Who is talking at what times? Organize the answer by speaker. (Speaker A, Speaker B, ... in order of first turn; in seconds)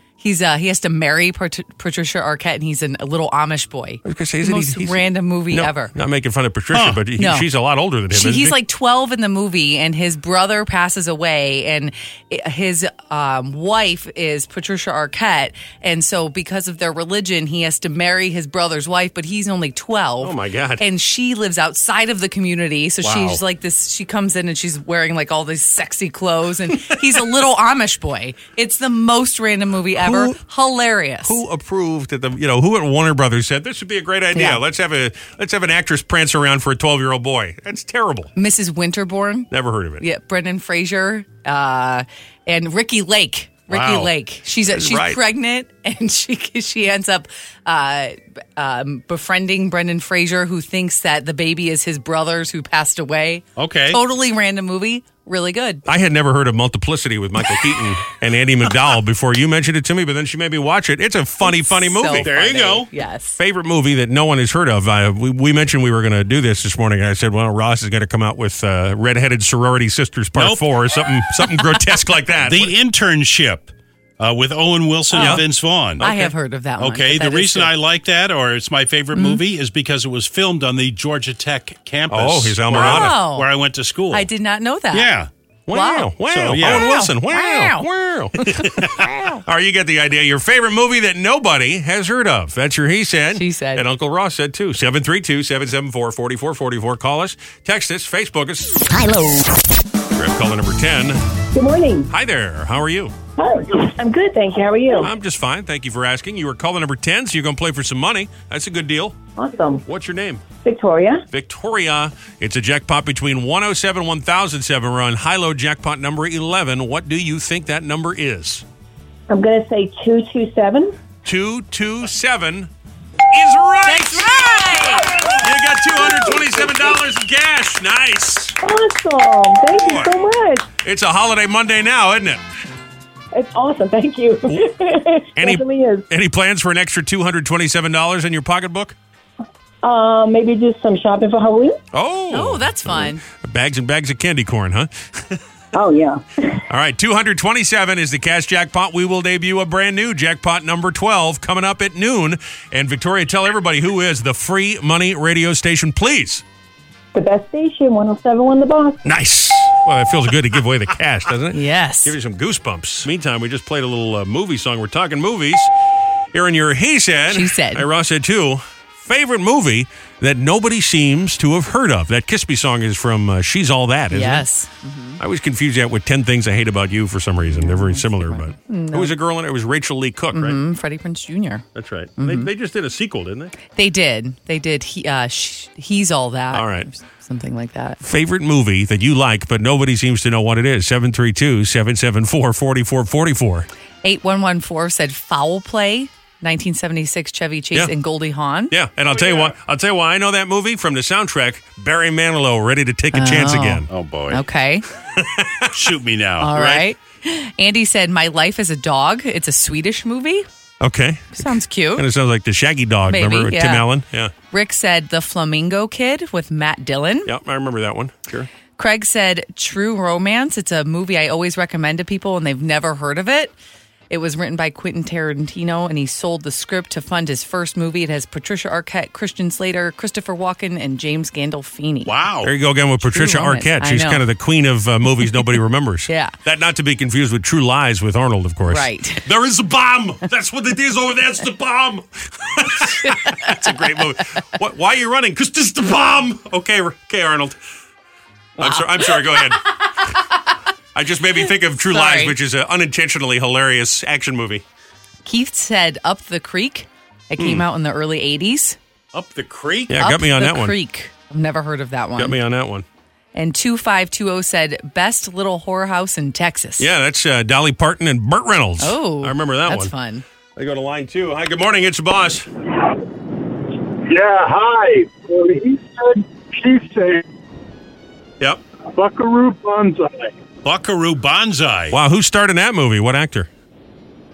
Speaker A: 0.2-5.9, 7.2-7.5, 8.1-31.4, 34.3-34.6, 38.4-55.8, 61.4-63.4, 75.1-75.5, 76.0-77.7, 79.2-79.4, 82.7-83.5, 84.1-85.2, 85.7-87.9, 88.4-89.4, 93.3-93.8, 123.8-125.1, 142.3-143.2, 161.6-162.1, 167.3-167.8, 174.1-175.2, 177.5-179.2, 180.3-181.7, 182.2-182.5, 183.7-188.0, 194.0-198.7, 203.1-204.8, 206.4-210.5, 211.3-212.1, 213.1-213.9, 214.5-217.3, 218.8-223.6, 224.1-232.1, 233.1-234.2, 236.1-236.3, 238.7-239.3, 243.0-244.2, 248.6-249.7, 251.9-252.3, 255.2-258.8, 259.9-262.4, 263.3-266.9, 268.8-270.2
Speaker B: 4.0-8.6, 20.2-20.8, 29.9-30.4, 31.2-38.3, 39.5-40.0, 44.7-45.2, 55.9-62.3, 63.4-72.7, 75.1-76.3, 82.1-83.2, 85.7-98.8, 100.1-101.2, 102.1-103.1, 105.0-109.2, 109.9-110.4, 111.3-118.7, 121.2-122.7, 123.3-128.6, 129.8-130.1, 130.8-132.4, 134.5-134.7, 135.4-138.9, 141.9-145.4, 146.7-156.4, 159.1-165.7, 166.3-174.5, 175.2-180.6, 181.8-183.5, 186.5-186.9, 188.0-193.7, 198.7-203.9, 205.2-205.9, 210.8-214.3, 217.3-218.5, 232.4-247.6, 248.6-249.8, 250.9-254.6, 257.4-257.6, 259.9-260.8, 262.2-262.9, 266.8-269.9, 270.6-272.5, 281.9-283.5
Speaker C: 6.7-7.0, 23.0-23.4, 43.7-44.1, 53.6-54.0, 62.1-62.9, 70.3-70.7, 72.4-76.2, 76.8-84.3, 84.9-85.3, 86.3-86.9, 203.9-204.4, 205.7-206.8, 232.1-232.5, 259.1-259.9, 280.6-282.0
Speaker D: 101.5-102.1, 103.4-105.1, 109.4-109.8, 110.6-111.2, 119.3-121.0, 126.0-126.7, 128.6-130.7, 133.3-136.1, 139.8-141.8, 145.7-146.6, 157.1-159.0
Speaker E: 274.1-277.2, 278.9-280.3